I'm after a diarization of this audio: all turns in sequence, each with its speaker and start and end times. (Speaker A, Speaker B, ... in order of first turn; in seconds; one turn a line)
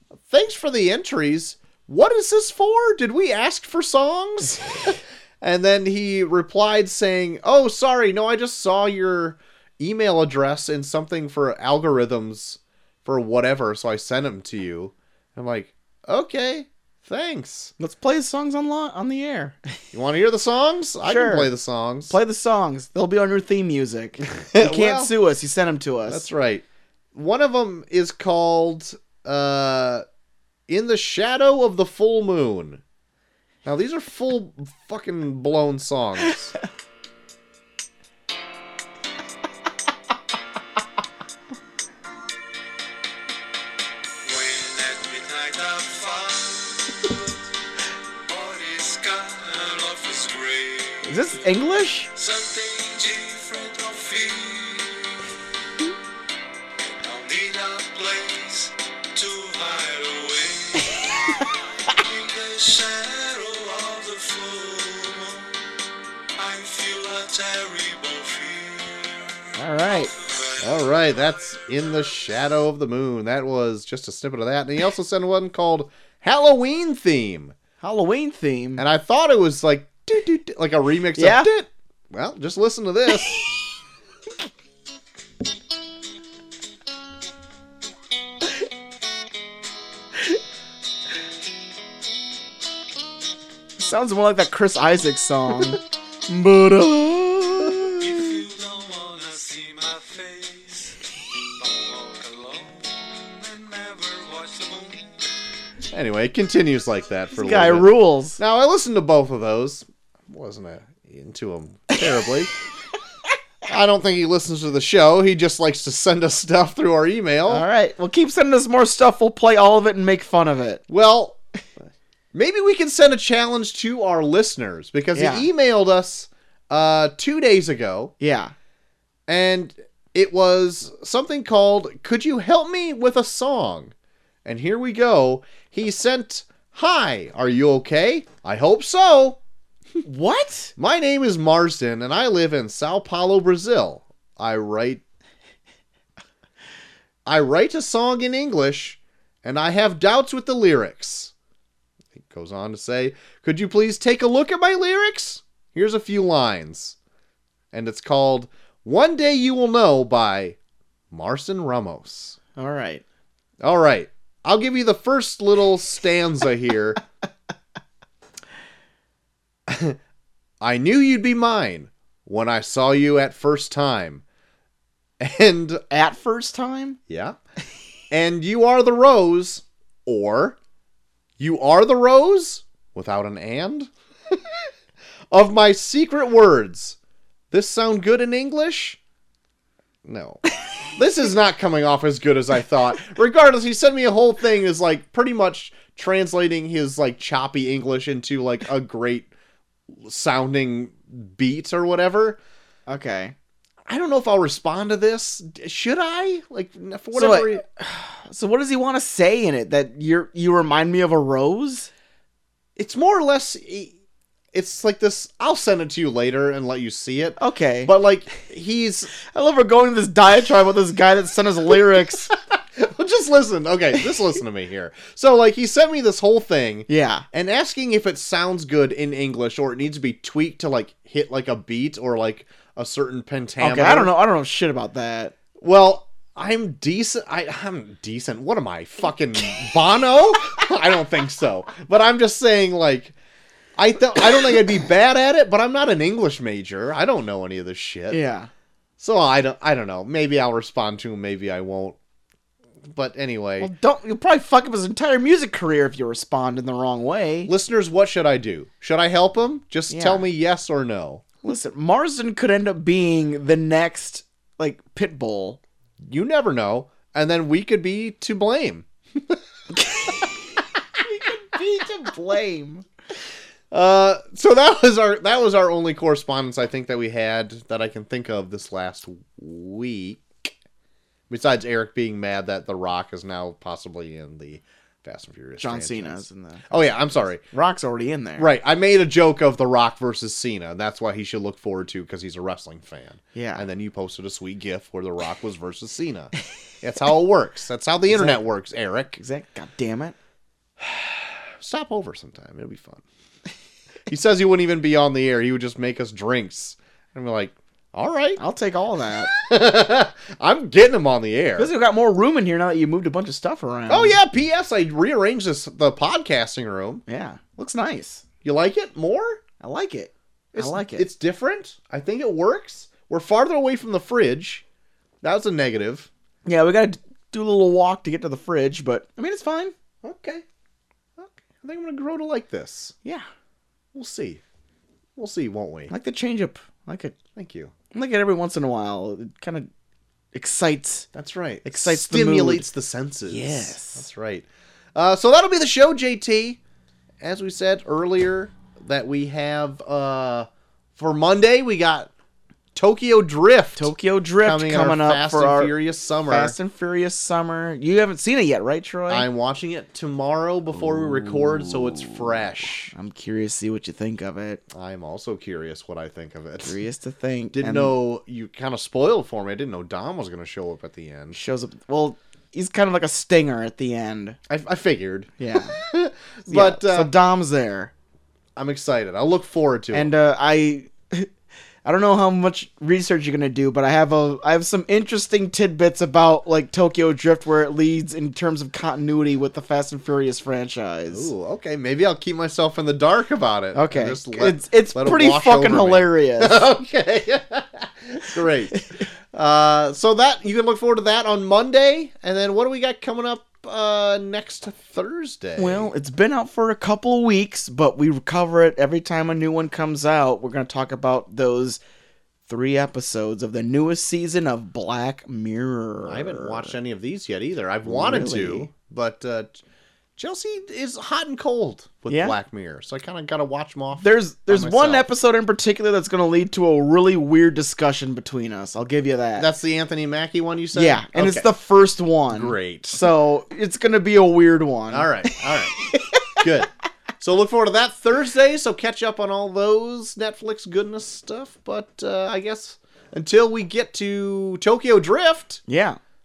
Speaker A: 0.3-17.7
Speaker B: 17.8-19.8
Speaker A: 19.9-22.1
Speaker B: 21.0-21.5
Speaker B: 22.1-26.3
Speaker A: 24.2-25.1
Speaker A: 26.1-30.0
Speaker A: 30.7-32.8
Speaker A: 33.6-36.5
Speaker C: 44.2-47.2
Speaker C: 48.3-51.3
Speaker B: 51.0-52.1
Speaker C: 52.1-55.3
Speaker C: 56.8-65.6
Speaker C: 66.3-72.2
Speaker B: 69.5-70.1
Speaker A: 70.6-77.5
Speaker B: 77.8-78.8
Speaker A: 78.8-83.4
Speaker B: 81.2-81.5
Speaker B: 93.8-98.3
Speaker C: 98.0-101.0
Speaker C: 101.6-105.2
Speaker A: 105.9-112.5
Speaker B: 107.3-108.4
Speaker A: 113.6-117.7
Speaker B: 117.5-120.8
Speaker A: 120.9-128.1
Speaker B: 125.1-125.5
Speaker B: 128.2-128.5
Speaker A: 129.3-133.9
Speaker A: 134.4-139.4
Speaker B: 140.0-140.7
Speaker A: 140.8-145.0
Speaker A: 147.2-151.3
Speaker A: 152.1-156.9
Speaker A: 157.7-160.6
Speaker A: 161.1-162.4
Speaker B: 162.6-163.0
Speaker A: 163.6-167.0
Speaker A: 169.7-170.0
Speaker A: 170.6-174.2
Speaker A: 175.2-175.8
Speaker B: 175.9-177.0
Speaker A: 177.1-177.4
Speaker A: 178.1-180.6
Speaker A: 181.4-184.7
Speaker A: 185.3-187.0
Speaker A: 187.5-189.0
Speaker A: 190.0-199.3
Speaker A: 200.0-202.4
Speaker B: 202.9-203.3
Speaker A: 203.9-207.6
Speaker B: 207.1-211.9
Speaker A: 212.8-213.9
Speaker A: 214.5-219.1
Speaker B: 217.4-217.9
Speaker B: 219.2-222.3
Speaker A: 222.5-234.1
Speaker B: 226.9-227.2
Speaker B: 233.6-235.3
Speaker A: 235.6-243.1
Speaker A: 243.8-248.2
Speaker B: 248.1-248.5
Speaker A: 249.0-252.0
Speaker A: 252.9-253.7
Speaker B: 253.6-257.5
Speaker A: 257.5-261.2
Speaker B: 259.9-260.2
Speaker B: 261.4-265.6
Speaker A: 266.0-269.4
Speaker B: 269.7-270.2
Speaker B: 271.0-272.9
Speaker A: 273.7-280.5
Speaker A: 281.3-287.4
Speaker B: 285.6-286.7
Speaker B: 287.5-288.5
Speaker A: 288.4-299.2
Speaker B: 293.3-293.6
Speaker B: 298.1-298.4
Speaker B: 299.1-300.1
Speaker A: 300.8-303.0
Speaker A: 304.1-308.4
Speaker B: 308.4-309.3
Speaker A: 309.1-311.7
Speaker B: 311.6-314.2
Speaker A: 313.9-317.0
Speaker B: 317.1-318.2
Speaker A: 318.4-319.4
Speaker B: 319.6-321.1
Speaker A: 320.5-324.6
Speaker A: 325.2-326.1
Speaker B: 326.4-329.7
Speaker A: 330.0-330.4
Speaker A: 331.2-332.9
Speaker A: 333.9-334.4
Speaker A: 335.1-335.9
Speaker B: 335.9-337.2
Speaker A: 337.3-337.7
Speaker B: 337.9-339.7
Speaker B: 340.3-341.1
Speaker A: 341.1-346.6
Speaker B: 341.6-342.7
Speaker B: 343.2-344.1
Speaker A: 347.2-352.1
Speaker A: 352.7-353.9
Speaker B: 353.8-355.7
Speaker A: 354.4-356.6
Speaker B: 356.2-359.3
Speaker A: 359.1-362.9
Speaker B: 360.9-362.1
Speaker B: 362.9-364.6
Speaker A: 364.7-366.8
Speaker B: 366.6-367.9
Speaker A: 367.5-371.4
Speaker B: 371.3-374.4
Speaker A: 374.5-377.1
Speaker B: 375.4-375.8
Speaker B: 376.5-377.9
Speaker A: 378.6-380.1
Speaker B: 379.9-381.3
Speaker B: 381.8-391.3
Speaker A: 391.1-405.9
Speaker B: 393.7-396.6
Speaker B: 398.7-399.0
Speaker B: 405.6-411.8
Speaker B: 412.5-416.7
Speaker A: 416.1-419.6
Speaker B: 417.8-418.7
Speaker A: 420.2-425.1
Speaker B: 422.1-422.4
Speaker B: 424.0-429.5
Speaker A: 429.4-431.5
Speaker B: 430.7-436.4
Speaker A: 432.3-433.0
Speaker A: 434.9-435.8
Speaker A: 436.4-445.6
Speaker B: 445.7-446.0